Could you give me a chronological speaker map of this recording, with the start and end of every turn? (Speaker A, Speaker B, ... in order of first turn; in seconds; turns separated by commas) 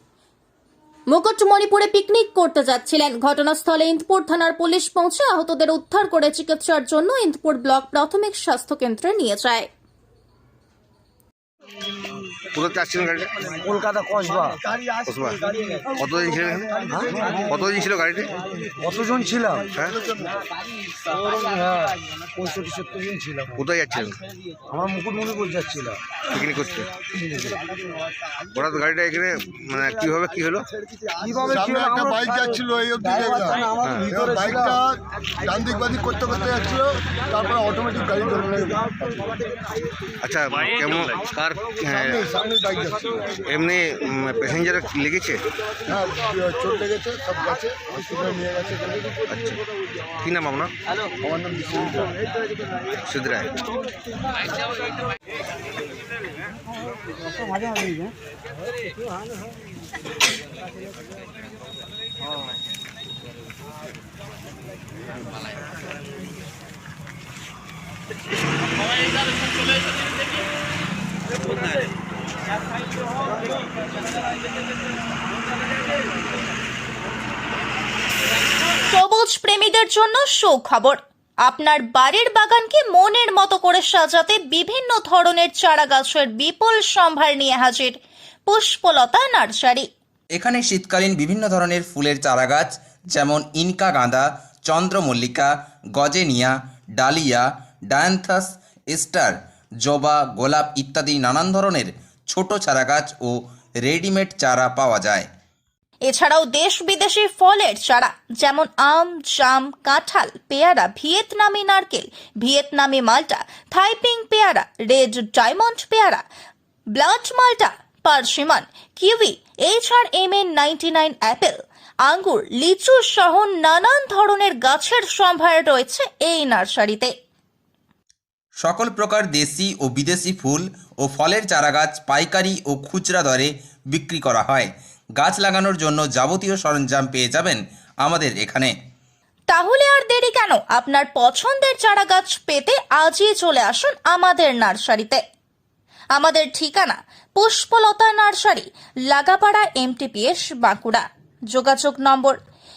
Speaker A: 1.1-9.7, Speaker B: 12.5-13.6, Speaker C: 13.6-14.6, Speaker B: 15.1-15.4, Speaker B: 16.0-16.9, Speaker C: 17.0-17.6, Speaker B: 17.5-18.3, Speaker C: 18.8-19.7, Speaker B: 19.7-20.0, Speaker C: 21.1-23.6, Speaker B: 23.6-24.2, Speaker C: 24.7-26.0, Speaker B: 26.3-26.9, Speaker C: 27.1-27.6, Speaker B: 28.5-30.7, Speaker C: 31.2-34.8, Speaker D: 31.5-39.2, Speaker B: 40.2-42.3, Speaker D: 41.9-43.2, Speaker B: 43.5-45.4, Speaker D: 45.9-49.1, Speaker B: 49.3-49.6, Speaker B: 50.2-50.7, Speaker D: 51.2-52.1, Speaker B: 53.0-53.5, Speaker C: 57.4-58.1, Speaker A: 78.9-89.9, Speaker E: 90.4-105.3, Speaker A: 106.1-116.2, Speaker A: 117.0-127.1, Speaker E: 128.6-138.7, Speaker A: 139.5-145.2, Speaker A: 146.1-152.4